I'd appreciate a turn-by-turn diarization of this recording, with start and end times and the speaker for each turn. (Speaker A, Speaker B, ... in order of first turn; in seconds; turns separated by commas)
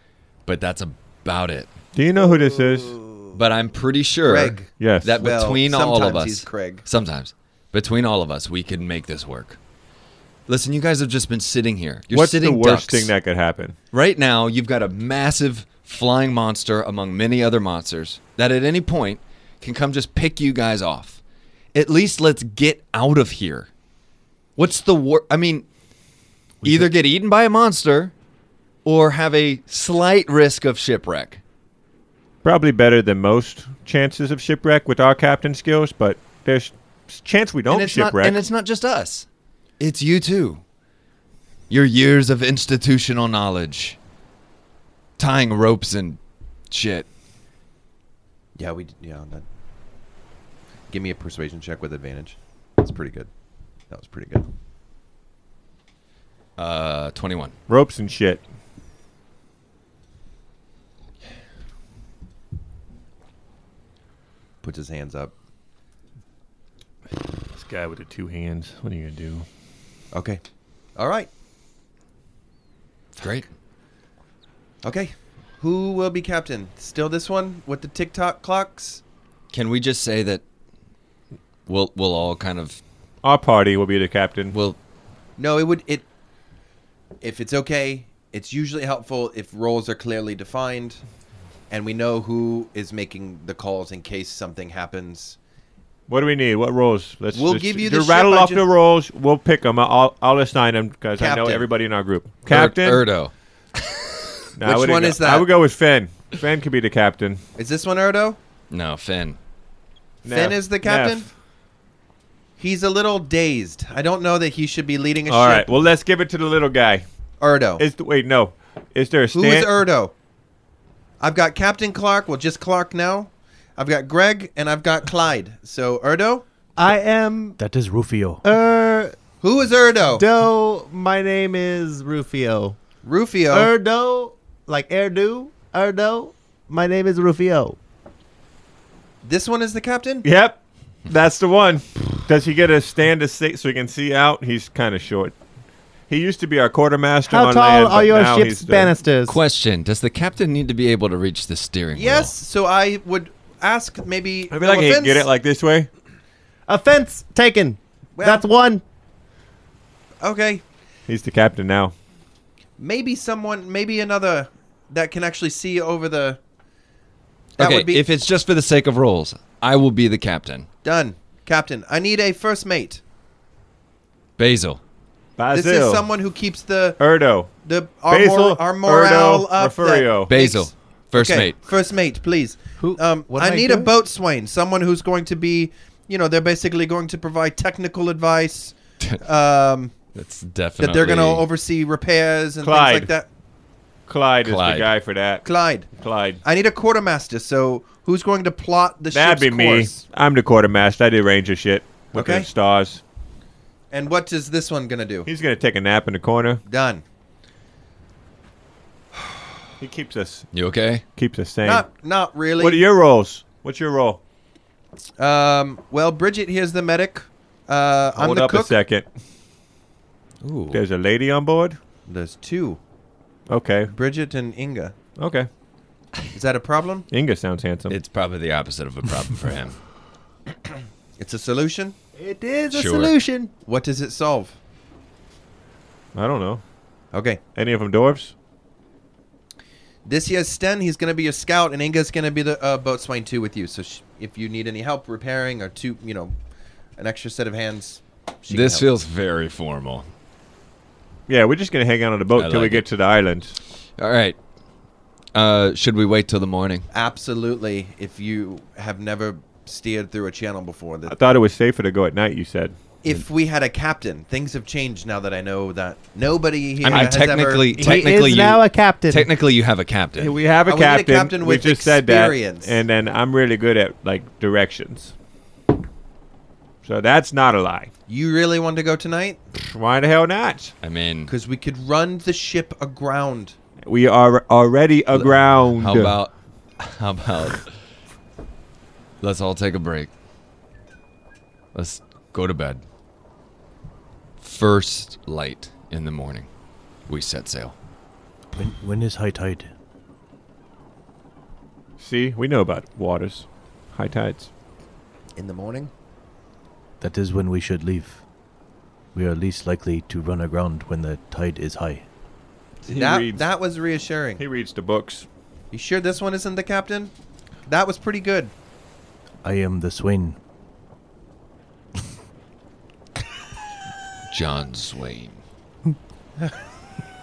Speaker A: 0.5-1.7, Speaker B: 1.9-3.0, Speaker C: 2.9-3.3, Speaker A: 3.3-9.6, Speaker C: 4.2-6.8, Speaker B: 4.8-5.1, Speaker A: 10.5-13.1, Speaker B: 12.1-13.8, Speaker A: 13.9-21.2, Speaker A: 21.7-23.7, Speaker A: 24.6-25.7, Speaker D: 26.6-26.9, Speaker A: 26.6-28.1, Speaker A: 28.8-31.4, Speaker B: 32.4-38.4, Speaker A: 37.7-39.3, Speaker A: 39.8-40.6, Speaker A: 41.7-44.0, Speaker A: 45.2-47.1, Speaker C: 48.5-49.4, Speaker C: 50.9-53.3, Speaker C: 53.9-54.5, Speaker A: 56.6-57.5, Speaker B: 57.7-58.4, Speaker C: 64.6-65.3, Speaker B: 67.5-69.5, Speaker C: 70.1-70.4, Speaker C: 70.9-71.3, Speaker A: 73.2-73.5, Speaker C: 74.8-79.0, Speaker A: 79.5-80.4, Speaker A: 81.7-82.8, Speaker B: 83.2-84.5, Speaker C: 85.4-86.1, Speaker C: 87.2-91.0, Speaker C: 91.7-95.4, Speaker B: 96.1-103.0, Speaker C: 97.3-98.6, Speaker C: 101.2-101.7, Speaker A: 102.5-104.0, Speaker B: 104.6-107.4, Speaker C: 104.6-105.5, Speaker C: 107.6-108.4, Speaker A: 108.7-109.4, Speaker B: 110.2-111.3, Speaker C: 110.3-111.3, Speaker C: 112.6-115.7, Speaker B: 115.3-117.0, Speaker C: 117.4-117.8, Speaker B: 117.8-119.7, Speaker C: 119.3-120.1, Speaker C: 121.2-126.4, Speaker E: 126.8-127.6, Speaker D: 127.6-128.4, Speaker E: 128.4-129.2, Speaker C: 129.4-130.2, Speaker E: 130.1-132.8, Speaker C: 133.0-133.7, Speaker E: 133.5-137.8, Speaker C: 139.2-140.3, Speaker B: 140.2-145.4, Speaker B: 146.1-148.9, Speaker E: 147.3-149.4, Speaker A: 149.2-152.3, Speaker C: 151.9-155.3, Speaker B: 154.5-155.9, Speaker E: 156.7-158.8, Speaker C: 158.2-158.4, Speaker C: 160.2-160.6, Speaker B: 161.1-161.9, Speaker C: 162.8-166.4, Speaker C: 167.6-168.0, Speaker A: 167.6-170.7, Speaker C: 170.8-173.0, Speaker A: 174.4-174.8, Speaker B: 175.4-176.1, Speaker C: 175.5-190.0, Speaker B: 177.0-177.5, Speaker B: 178.1-180.3, Speaker A: 180.3-181.6, Speaker E: 182.8-183.9, Speaker A: 190.1-191.4, Speaker C: 190.8-193.3, Speaker B: 192.6-193.1, Speaker B: 194.1-196.4, Speaker A: 194.4-194.9, Speaker C: 195.4-195.9, Speaker C: 196.4-199.9, Speaker B: 199.1-203.0, Speaker C: 202.1-202.5, Speaker C: 203.9-205.3, Speaker B: 205.2-206.6, Speaker C: 206.7-207.0, Speaker B: 209.8-210.5, Speaker A: 210.5-211.0, Speaker B: 211.2-211.8, Speaker C: 211.6-212.8, Speaker B: 212.6-214.2, Speaker C: 215.2-218.8, Speaker B: 218.1-219.1, Speaker A: 220.4-220.8, Speaker B: 220.7-221.8, Speaker C: 222.1-222.8, Speaker B: 223.5-223.9, Speaker C: 223.9-224.9, Speaker B: 225.2-225.5, Speaker C: 226.3-227.1, Speaker B: 227.1-228.0, Speaker A: 227.9-229.8, Speaker C: 231.2-231.9, Speaker E: 232.2-233.5, Speaker A: 232.7-233.1, Speaker C: 233.6-234.6, Speaker B: 236.1-236.6, Speaker C: 237.1-237.4, Speaker B: 237.5-238.3, Speaker C: 240.0-246.3, Speaker C: 246.9-248.9, Speaker A: 248.5-250.1, Speaker B: 251.3-253.6, Speaker A: 252.3-252.8, Speaker A: 254.0-254.4, Speaker A: 255.3-256.9, Speaker C: 256.9-261.2, Speaker B: 261.1-262.8, Speaker C: 263.0-268.1, Speaker A: 266.8-270.4, Speaker E: 267.7-269.3, Speaker B: 270.1-275.1, Speaker C: 270.6-272.8, Speaker B: 276.8-277.9, Speaker C: 278.1-279.4, Speaker B: 279.5-280.7, Speaker A: 280.8-281.3, Speaker C: 281.3-283.6, Speaker B: 283.8-286.1, Speaker A: 285.1-287.8, Speaker A: 289.2-290.1, Speaker A: 291.7-292.8, Speaker A: 294.4-296.5, Speaker A: 297.1-297.8, Speaker D: 298.5-299.7, Speaker B: 302.0-304.5, Speaker C: 305.4-305.9, Speaker D: 307.0-308.2, Speaker D: 309.1-312.1, Speaker B: 312.8-313.5, Speaker C: 312.9-314.4, Speaker B: 314.4-315.3, Speaker C: 315.7-317.1, Speaker C: 317.6-318.5, Speaker D: 319.4-320.4, Speaker A: 324.3-325.4